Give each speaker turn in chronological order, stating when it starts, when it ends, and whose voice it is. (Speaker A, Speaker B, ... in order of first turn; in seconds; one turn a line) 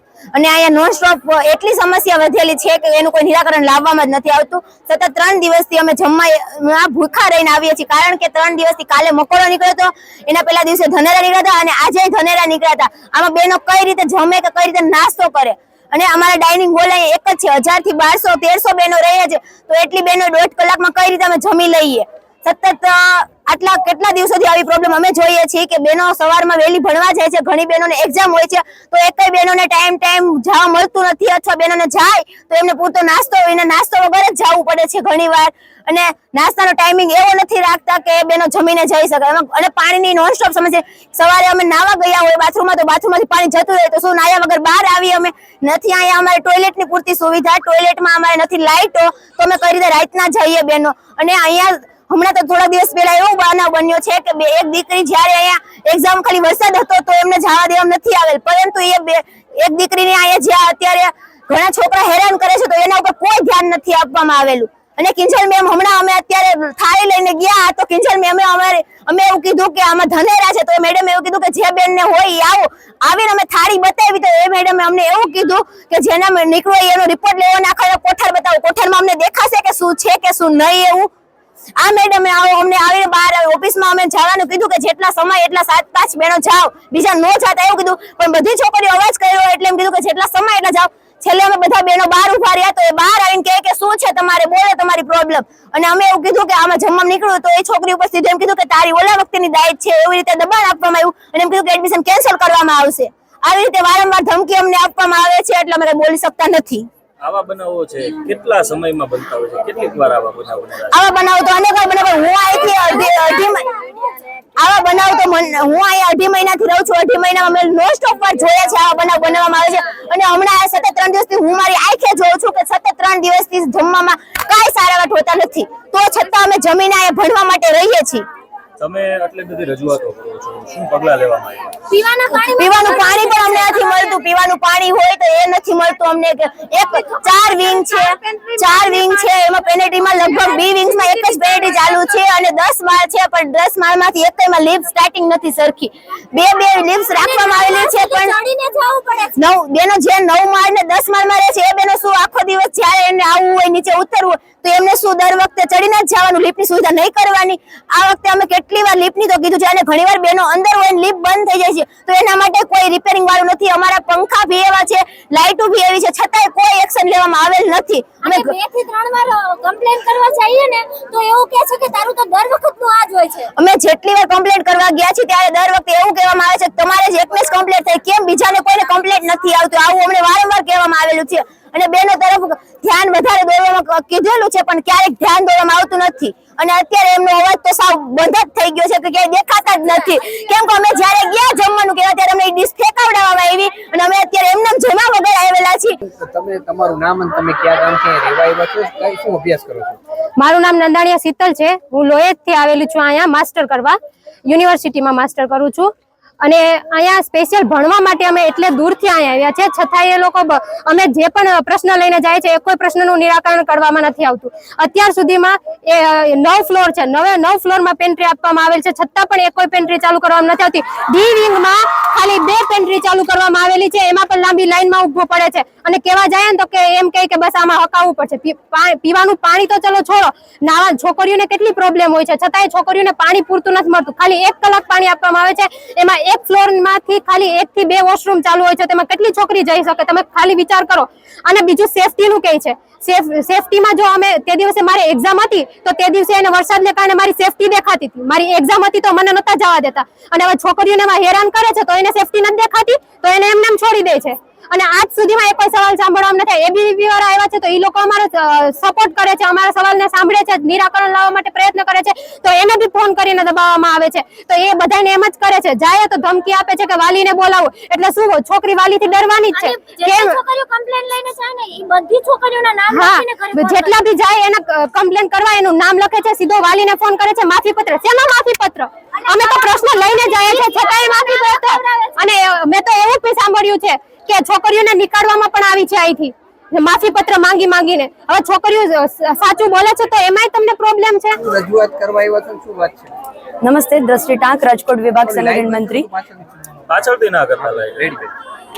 Speaker A: 0.3-81.1
Speaker A: 81.8-106.9
Speaker B: 107.2-111.0
Speaker A: 110.9-113.7
Speaker C: 112.6-114.1
Speaker A: 114.6-128.2
Speaker B: 128.8-131.8
Speaker C: 131.9-134.2
Speaker A: 132.5-148.4
Speaker C: 137.0-139.3
Speaker C: 140.1-141.9
Speaker C: 146.8-149.3
Speaker A: 149.3-168.5
Speaker C: 168.2-173.5
Speaker A: 173.6-196.0
Speaker D: 196.1-200.0
Speaker E: 200.4-204.0
Speaker E: 204.5-270.4
Speaker C: 269.5-273.9
Speaker E: 272.9-291.4
Speaker C: 279.3-282.2
Speaker D: 291.4-293.1
Speaker F: 293.6-296.1
Speaker D: 295.2-296.8
Speaker B: 296.9-298.3
Speaker D: 297.6-298.1